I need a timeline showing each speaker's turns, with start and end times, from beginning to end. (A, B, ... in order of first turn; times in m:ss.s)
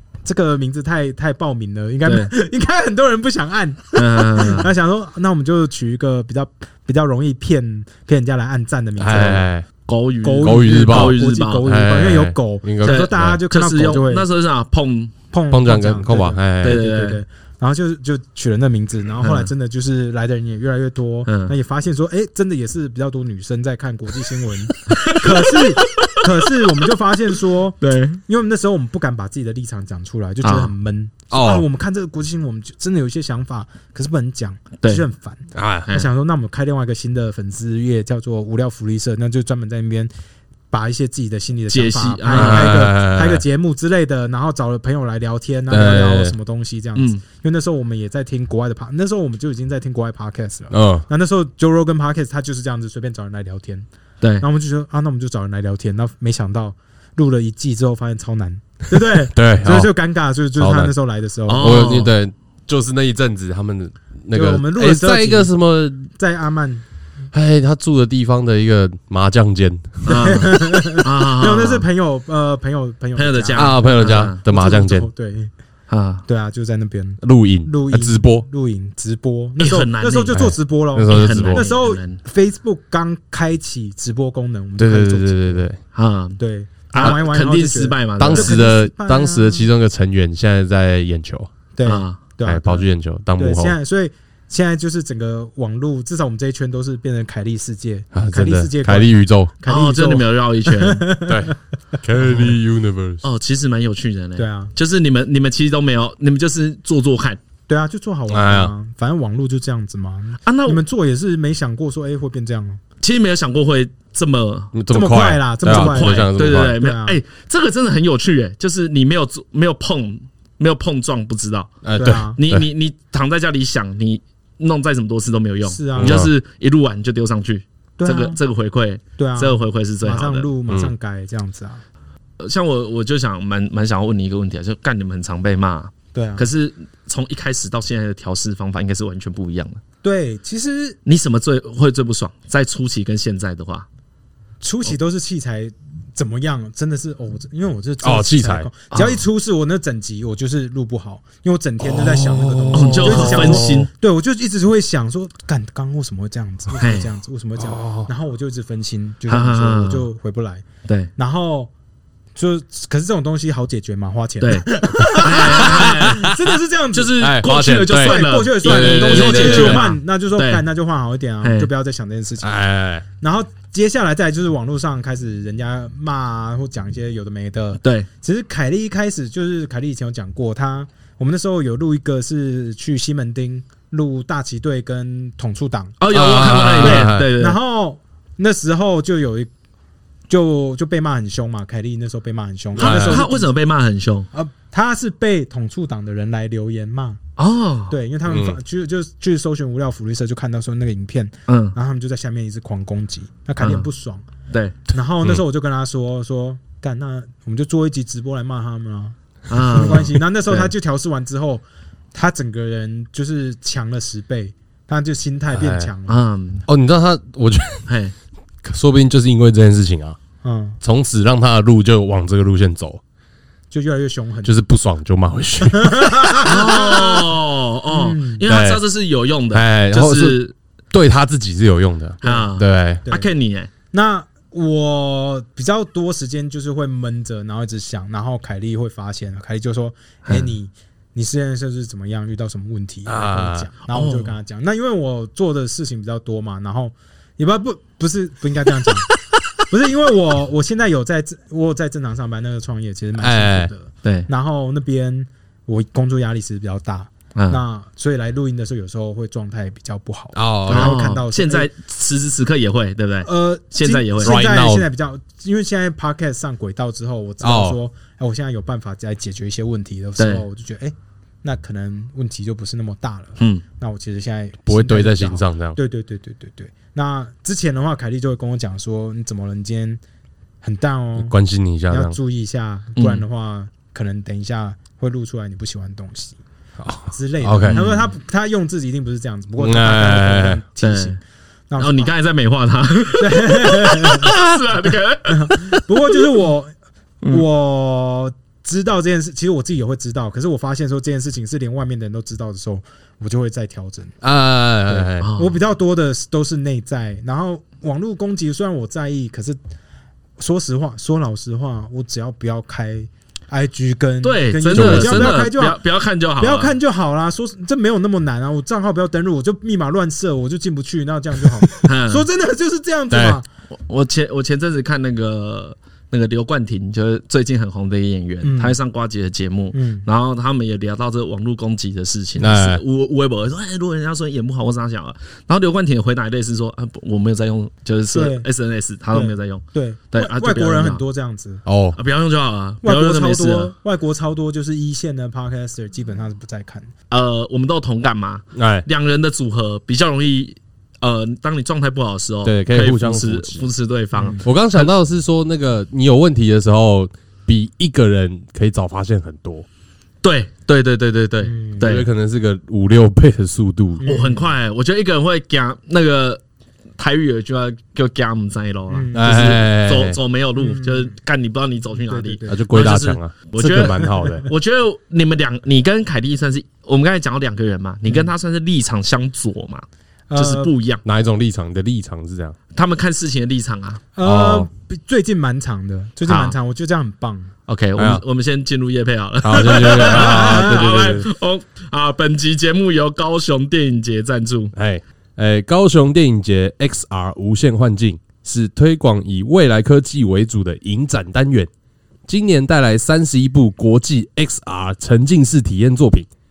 0:00.2-0:09.5 A
0:02.0-0:02.3 B
0:04.0-0:04.7 B
0:09.0-0:09.7 C
0:09.9-0:11.6 B
0:10.2-0:14.3 A
0:10.4-0:13.4 C
0:12.8-0:15.1 B
0:15.3-0:40.1 A
0:15.5-0:16.8 C
0:16.6-0:17.2 B
0:19.2-0:19.5 B
0:21.3-0:21.5 B
0:24.9-0:26.7 B
0:27.8-0:28.2 B
0:30.4-0:30.7 B
0:31.3-0:31.7 C
0:35.5-0:35.9 C
0:40.7-0:53.9 A
0:41.7-0:42.9 B
0:42.3-0:43.4 C
0:45.7-0:46.3 C
0:47.0-0:47.2 B
0:50.7-0:51.0 C
0:54.4-1:01.9 A
0:59.2-0:59.9 C
1:00.6-1:00.9 C
1:01.5-1:02.1 B
1:01.6-1:06.1 C
1:04.3-1:05.5 A
1:06.2-1:06.8 A
1:07.3-1:10.4 C
1:10.0-1:11.8 B
1:10.2-1:15.5 A
1:13.2-1:14.4 B
1:13.6-1:15.1 C
1:15.9-1:16.2 B
1:16.3-1:25.7 A
1:17.2-1:18.4 C
1:19.6-1:20.4 B
1:20.3-1:21.6 C
1:21.1-1:22.2 B
1:24.8-1:25.8 C
1:25.9-1:28.6 B
1:26.4-1:29.7 A
1:28.2-1:31.5 C
1:31.8-1:41.5 A
1:31.8-1:32.2 B
1:32.4-1:33.8 C
1:38.1-1:39.5 C
1:39.7-1:41.1 B
1:41.3-1:43.2 C
1:43.2-1:47.4 B
1:44.4-1:44.7 A
1:47.7-1:52.8 A
1:48.3-1:48.7 C
1:50.5-1:50.8 B
1:53.0-1:54.7 B
1:54.7-1:56.8 C
1:54.9-1:57.2 A
1:55.7-2:10.5 B
2:01.8-2:02.7 C
2:02.0-2:02.4 A
2:05.7-2:06.3 A
2:06.0-2:06.3 C
2:08.0-2:08.4 A
2:09.2-2:11.8 A
2:10.7-2:10.9 C
2:12.4-2:19.8 B
2:16.1-2:16.5 A
2:20.0-2:21.0 A
2:21.1-2:23.9 B
2:24.6-2:40.6 A
2:28.0-2:28.7 C
2:28.9-2:29.2 B
2:31.8-2:33.8 C
2:32.7-2:33.9 B
2:36.8-2:37.1 B
2:37.6-2:38.1 C
2:39.3-2:40.1 B
2:41.2-2:41.7 A
2:42.4-2:52.6 A
2:44.4-2:46.3 B
2:45.6-2:46.4 C
2:46.9-2:50.6 B
2:47.2-2:49.9 C
2:51.4-2:51.7 B
2:52.4-2:53.0 C
2:53.2-3:06.0 A
2:57.8-2:58.1 B
3:06.0-3:07.6 B
3:06.1-3:07.3 C
3:06.8-3:09.5 A
3:10.3-3:13.5 A
3:12.8-3:13.2 C
3:12.8-3:14.3 B
3:14.3-3:17.2 A
3:17.4-3:18.0 B
3:17.9-3:24.2 A
3:18.3-3:18.6 C
3:21.5-3:21.8 B
3:23.6-3:23.9 B
3:24.5-3:24.8 B
3:24.9-3:36.2 A
3:29.5-3:30.7 B
3:35.5-3:35.9 C
3:36.1-3:36.6 B
3:36.7-3:37.9 C
3:37.9-3:38.1 B
3:38.6-3:40.2 C
3:40.4-3:40.8 A
3:40.8-3:43.0 C
3:43.7-3:44.6 A
3:44.4-3:46.4 C
3:45.6-3:47.3 A
3:46.4-3:50.5 B
3:47.9-3:48.5 A
3:48.4-3:48.8 C
3:49.5-3:50.4 C
3:50.9-3:53.0 C
3:52.2-3:53.7 B
3:53.9-4:21.7 A
4:03.1-4:03.7 C
4:03.9-4:04.4 B
4:13.2-4:13.7 C
4:17.4-4:17.6 B
4:20.4-4:21.0 C
4:20.7-4:24.4 B
4:23.2-4:40.0 A
4:24.2-4:24.9 C
4:27.4-4:27.8 C
4:30.2-4:30.4 B
4:33.4-4:33.6 B
4:34.7-4:35.8 C
4:40.6-4:41.4 A
4:41.2-4:42.2 C
4:41.9-4:46.4 A
4:43.0-4:43.2 B
4:46.8-4:47.8 C
4:47.1-4:51.2 A
4:47.7-4:48.1 B
4:49.6-4:50.6 C
4:50.8-4:51.2 B
4:51.7-4:52.1 A
4:51.8-4:56.2 B
4:53.2-4:54.4 A
4:55.3-4:56.7 A
4:57.3-5:04.2 A
5:04.2-5:05.3 C
5:04.9-5:09.6 A
5:05.2-5:05.5 B
5:10.4-5:15.8 A
5:14.2-5:16.8 B
5:14.7-5:15.4 C
5:16.4-5:23.5 A
5:21.8-5:22.3 B
5:23.1-5:23.4 C
5:23.7-5:41.0 B
5:28.4-5:28.8 A
5:29.7-5:30.1 A
5:32.4-5:32.8 C
5:38.1-5:38.5 A
5:39.1-5:41.6 A
5:41.7-5:42.0 C
5:42.0-5:43.7 B
5:42.8-5:46.9 A
5:47.1-5:54.9 B
5:48.5-5:48.8 C
5:52.4-5:53.6 C
5:54.2-5:54.4 A
5:54.4-5:59.7 C
6:00.2-6:02.0 B
6:01.4-6:01.9 A
6:01.8-6:04.0 C
6:04.0-6:04.5 A
6:04.1-6:06.4 B
6:07.0-6:21.0 B
6:08.9-6:09.6 A
6:09.1-6:10.2 C
6:10.6-6:11.1 A
6:12.0-6:12.7 A
6:12.5-6:14.5 C
6:14.0-6:14.4 A
6:20.3-6:20.7 A
6:21.0-6:22.6 C
6:22.7-6:24.0 B
6:24.2-6:27.5 A
6:24.2-6:24.7 C
6:26.3-6:26.6 B
6:27.7-6:34.7 B
6:28.0-6:28.2 C
6:29.4-6:31.3 C
6:29.6-6:31.1 A
6:34.7-6:41.7 C
6:42.3-6:46.3 C